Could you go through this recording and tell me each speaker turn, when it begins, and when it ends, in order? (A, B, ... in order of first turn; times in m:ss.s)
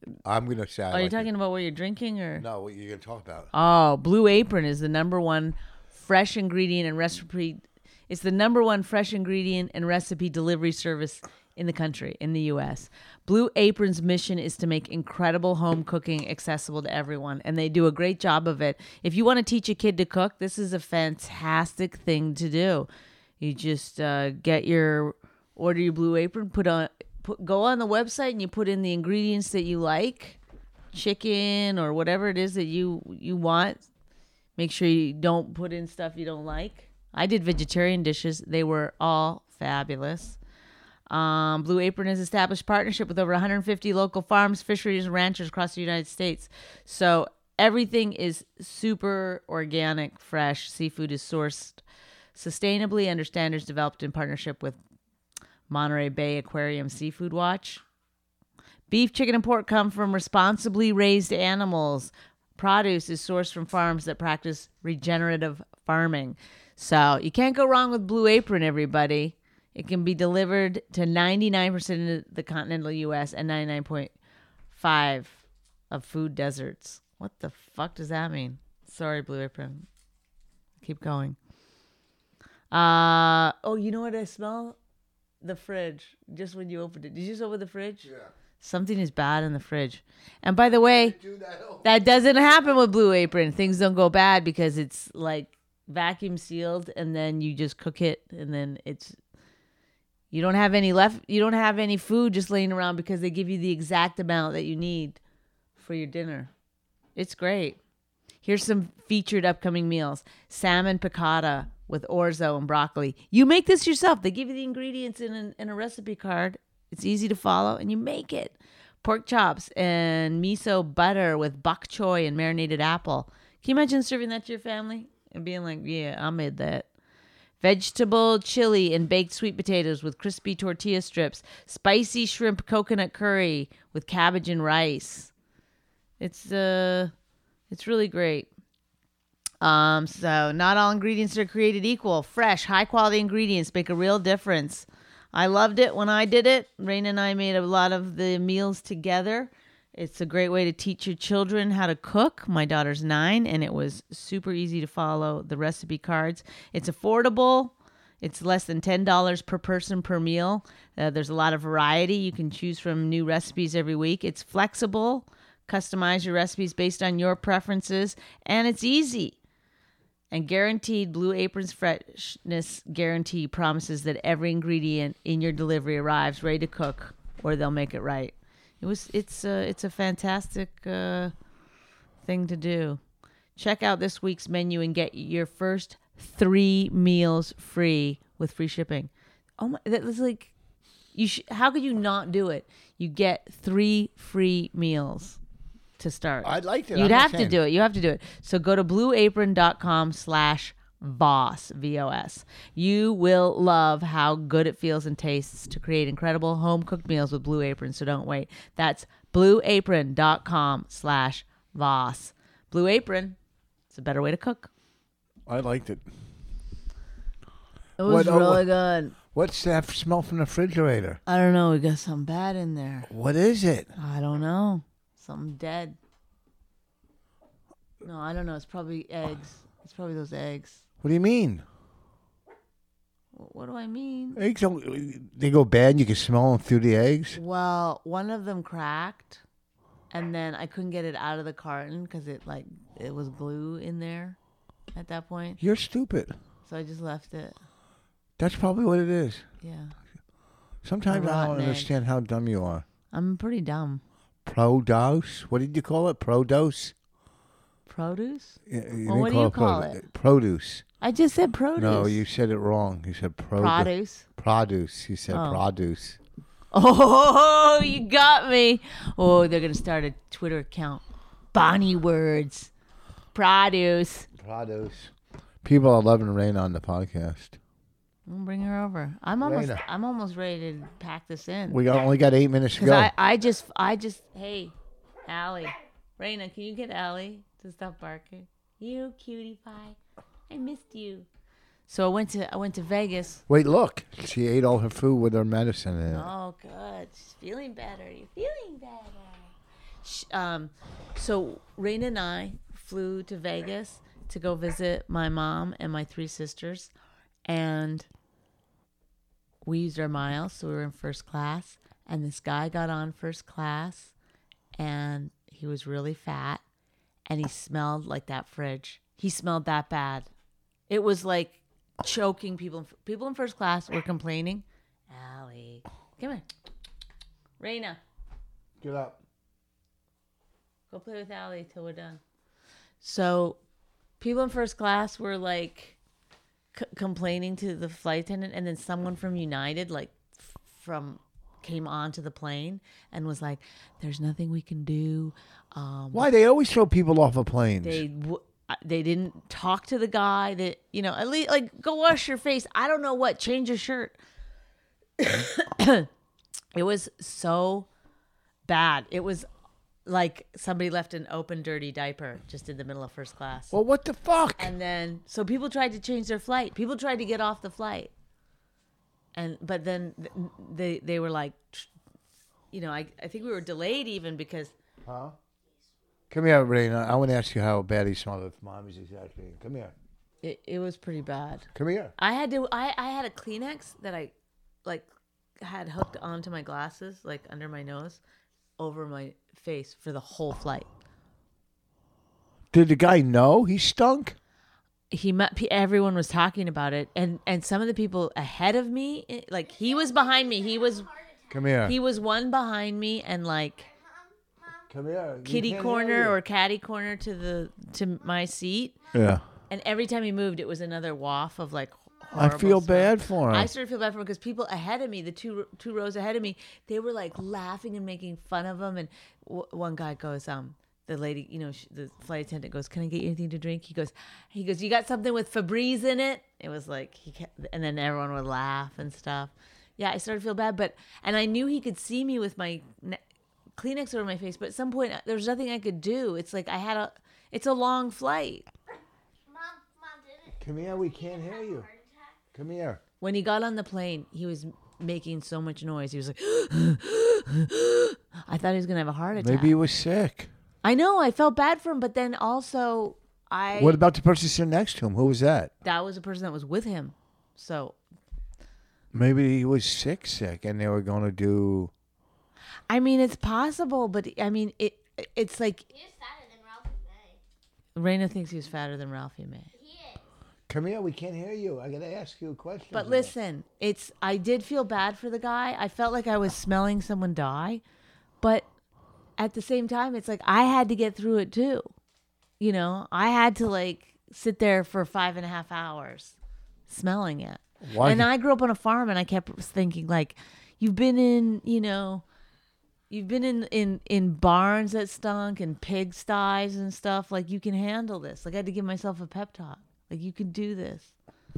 0:00.2-0:01.3 A
0:00.9-0:02.5 B
0:02.4-0:03.5 A
0:03.5-0:22.9 B
0:23.4-0:30.4 B
0:30.9-0:33.8 B
0:34.6-0:40.4 B
0:41.1-0:51.8 B
0:52.4-0:54.8 B
0:55.7-0:57.8 B
0:58.9-1:14.1 B
1:14.7-1:19.9 B
1:20.8-1:21.4 B
1:22.7-1:24.8 B
1:25.4-1:31.2 B
1:30.8-1:31.9 A
1:31.8-1:39.2 B
1:40.3-1:45.2 B
1:45.8-1:46.5 B
1:47.2-1:47.8 B
1:48.4-2:06.9 B
2:07.6-2:15.3 B
2:16.2-2:17.1 B
2:17.7-2:18.5 B
2:19.6-2:49.4 B
2:50.3-3:01.3 B
3:02.2-3:03.0 B
3:03.6-3:10.5 B
3:11.1-3:15.4 B
3:16.0-3:33.4 B
3:16.4-3:17.6 A
3:33.9-3:34.7 B
3:35.5-3:36.1 A
3:38.0-3:39.2 B
3:38.0-3:38.7 A
3:39.3-3:41.2 A
3:41.3-3:43.1 B
3:43.1-3:43.9 A
3:44.0-3:46.0 B
3:48.0-3:50.8 B
3:51.0-3:51.6 A
3:53.3-3:54.4 B
3:54.4-3:57.4 A
3:57.3-3:59.4 B
4:00.1-4:04.4 B
4:04.9-4:05.6 B
4:05.6-4:06.4 A
4:06.6-4:07.6 B
4:08.4-4:09.5 A
4:09.6-4:09.9 B
4:10.8-4:12.9 A
4:11.1-4:11.9 B
4:13.1-4:14.0 B
4:14.4-4:16.9 A
4:17.9-4:20.1 B
4:18.7-4:20.8 A
4:21.0-4:22.2 B
4:21.8-4:26.2 A
4:23.6-4:24.2 B
4:25.3-4:25.6 B
4:26.7-4:32.7 B
4:33.3-4:34.3 B
4:34.4-4:35.1 A
4:35.6-4:37.6 A
4:38.3-4:41.8 B
4:39.4-4:39.8 A
4:41.7-4:43.1 A
4:42.8-4:44.7 B
4:45.3-4:50.0 B
4:50.5-4:51.3 B
4:51.9-4:53.4 B
4:53.5-4:56.3 A
4:56.1-4:59.5 B
5:00.0-5:06.9 B
5:07.4-5:08.1 B
5:09.6-5:14.1 B
5:14.8-5:16.6 B
5:17.3-5:20.3 B
5:20.9-5:26.5 B
5:27.6-5:28.0 B
5:28.8-5:29.2 A
5:30.9-5:32.2 B
5:33.0-5:33.6 B
5:34.2-5:36.0 B
5:36.7-5:46.3 B
5:46.1-5:48.0 A
5:47.8-5:54.2 B
5:55.2-5:56.1 B
5:56.8-5:57.9 B
5:58.7-5:59.5 B
6:00.1-6:03.8 B
6:03.7-6:04.7 A
6:04.6-6:08.1 B
6:09.3-6:11.9 B
6:12.7-6:14.7 B
6:15.0-6:15.4 A
6:16.3-6:19.9 A
6:20.4-6:24.3 B
6:21.7-6:22.1 A
6:25.6-6:28.2 B
6:28.8-6:30.9 B
6:32.7-6:34.4 A
6:35.1-6:41.1 B
6:39.8-6:41.5 C
6:41.5-6:42.0 A
6:41.8-6:43.9 B
6:44.0-6:44.9 C
6:44.9-6:46.4 A
6:45.4-6:49.1 B
6:49.1-6:49.4 A
6:49.7-7:13.2 B
6:52.3-6:53.7 A
7:13.8-7:18.7 B
7:19.5-7:22.4 C
7:20.6-7:21.9 A
7:22.5-7:23.0 A
7:23.2-7:29.8 B
7:29.4-7:30.5 A
7:30.8-7:34.0 B
7:33.8-7:35.7 A
7:35.8-7:38.0 B
7:39.1-7:41.9 A
7:42.9-7:45.9 B
7:45.9-7:47.4 C
7:48.0-7:49.7 B
7:49.7-7:50.2 C
7:50.7-7:53.3 A
7:52.9-7:57.8 B
7:58.4-7:58.7 B
7:59.4-8:01.9 B
8:02.6-8:06.4 B
8:06.9-8:12.2 B
8:07.8-8:08.3 A
8:13.1-8:21.1 B